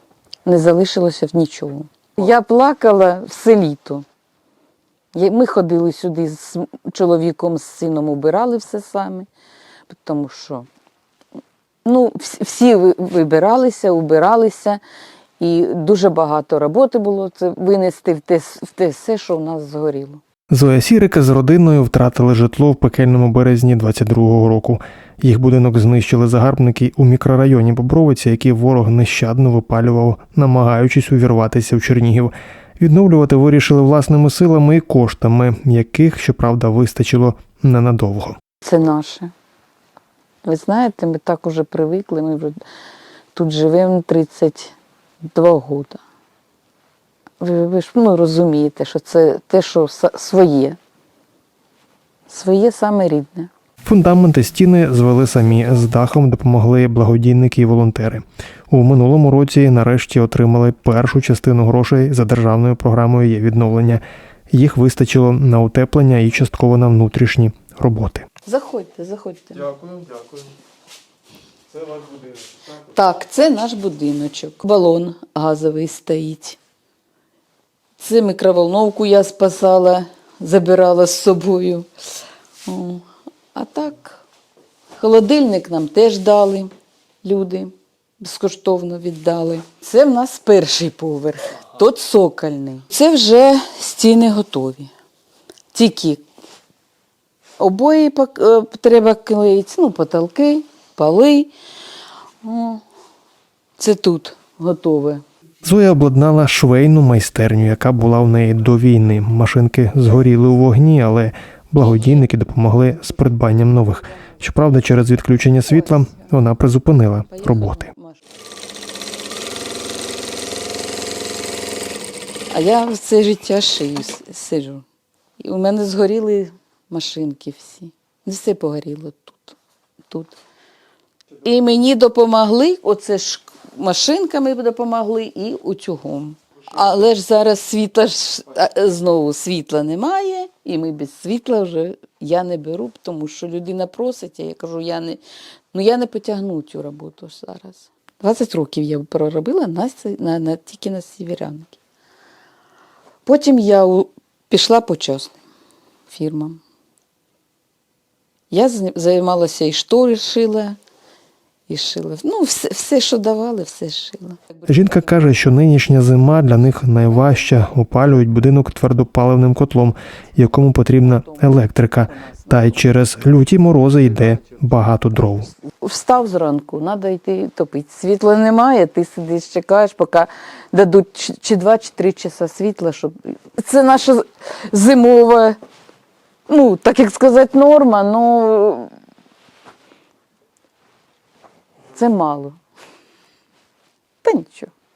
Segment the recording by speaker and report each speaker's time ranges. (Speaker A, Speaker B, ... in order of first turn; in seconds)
Speaker A: 0.5-4.1, 5.1-9.3, 9.9-10.7, 11.8-14.8, 15.4-20.2, 38.6-39.3, 40.4-42.6, 43.4-44.7, 45.3-46.0, 47.4-50.8, 52.3-53.5, 68.5-69.8, 72.7-76.6, 78.0-81.9, 82.7-84.2, 85.0-86.7, 87.2-94.9, 95.7-96.2, 97.6-101.5, 102.4-102.8, 103.8-105.2, 111.8-112.2, 115.7-116.3, 117.3-118.2, 122.5-124.8, 125.4-129.6, 131.4-145.2, 145.7-151.8, 153.3-155.4, 156.1-156.6, 158.5-160.8, 161.7-164.6, 171.0-172.8, 175.7-185.6, 186.5-188.9, 191.9-192.6, 194.2-194.7
Speaker B: 20.5-38.4, 53.9-68.3, 69.8-70.4, 105.6-117.9, 164.7-175.5